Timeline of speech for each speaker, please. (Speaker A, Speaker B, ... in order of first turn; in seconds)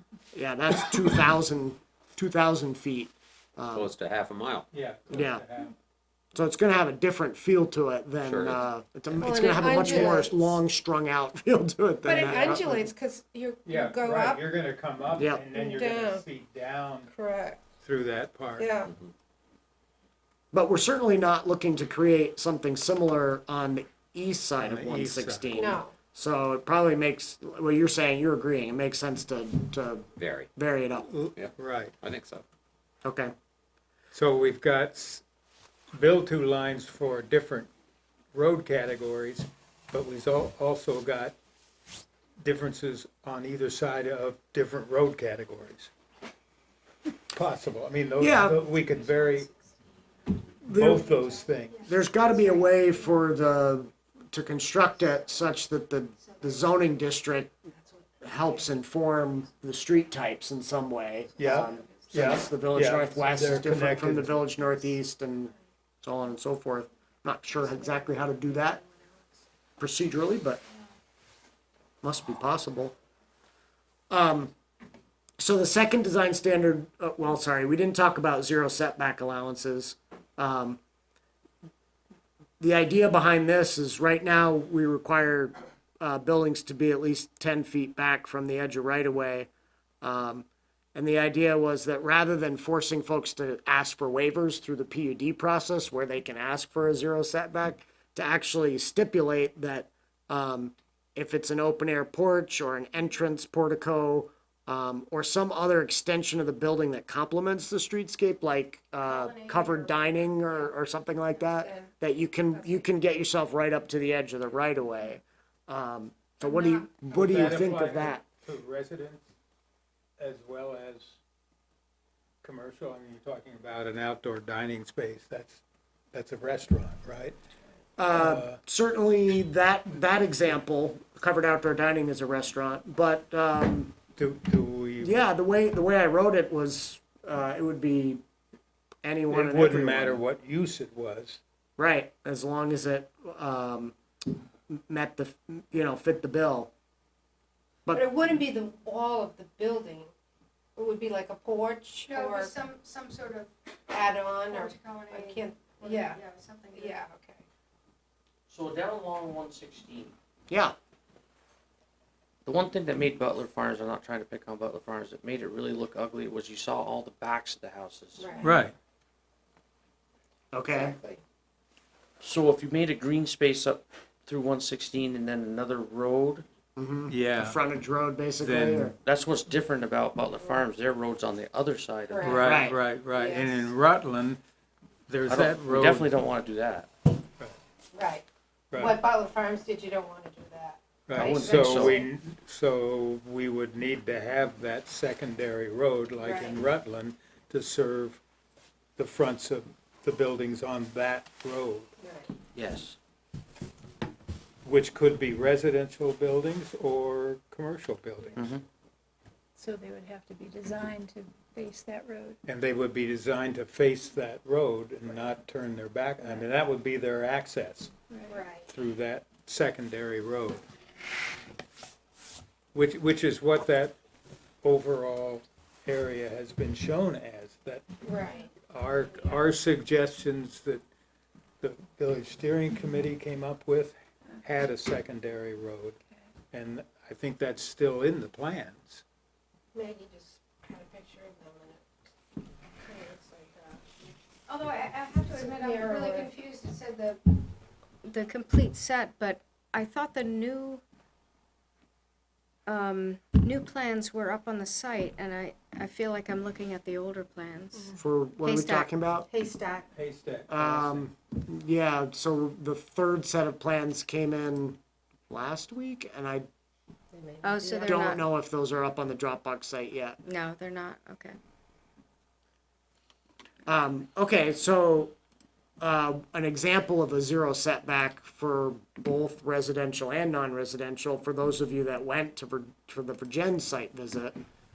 Speaker A: 0.3-3.9, 5.1-5.4, 6.3-12.9, 15.2-15.4, 20.5-31.1, 33.0-33.3, 48.2-48.6, 50.7-51.0, 51.9-57.5, 58.2-68.8, 69.8-70.6, 72.0-72.9, 74.1-74.5, 75.4-80.8, 82.6-89.5, 90.0-118.2, 128.0-133.9, 135.0-138.2, 139.0-140.2, 141.8-144.0, 144.7-146.7, 160.5-160.7, 170.5-170.9, 176.8-178.9, 182.4-182.8, 257.9-259.3, 260.5-264.8, 265.3-266.5, 267.8-270.2, 273.7-275.1, 275.8-284.4
Speaker B: 3.7-4.7, 8.2-8.6, 30.2-30.5, 31.4-32.4
Speaker C: 4.7-5.7, 9.8-10.2, 13.6-17.1, 17.8-18.7, 24.6-25.8, 31.1-31.9, 34.1-35.2, 35.9-37.7, 38.3-41.3, 42.4-45.9, 47.3-49.5, 50.6-51.9, 61.4-64.4, 117.1-119.3, 120.2-121.2, 122.4-127.3, 128.1-128.6, 134.1-135.2, 139.3-141.4, 168.4-168.7, 177.1-177.6, 178.4-178.9, 182.2-184.4, 185.1-186.1, 191.1-198.2, 199.0-201.9, 204.6-208.4, 212.4-217.9, 218.7-220.6, 222.7-223.9, 224.6-227.8, 228.7-230.8, 231.6-236.0, 236.5-239.0, 259.9-261.1
Speaker D: 9.2-10.4, 12.0-14.4, 15.5-16.2, 17.1-17.6, 18.6-18.9, 25.5-25.9, 111.5-111.9, 112.5-112.8, 116.4-117.6, 147.9-150.1, 150.8-152.6, 153.9-156.2, 156.7-157.4, 168.2-168.6, 170.7-171.2, 182.1-182.5, 183.1-183.7, 187.9-188.2, 188.7-192.1, 196.2-196.6, 202.0-202.3, 218.3-218.7, 228.0-228.5, 239.7-242.1, 242.8-243.8, 245.3-246.3, 259.3-259.9, 267.1-268.1
Speaker E: 109.0-110.7, 152.1-153.5, 154.4-157.0, 244.5-247.4, 248.0-250.8, 252.7-258.9, 267.4-268.2, 270.2-271.4
Speaker F: 158.5-160.1, 162.4-168.4, 172.2-176.4, 179.0-182.6, 185.3-186.9, 191.1-192.0, 202.5-202.9, 208.4-208.6
Speaker G: 209.6-212.4, 218.1-218.4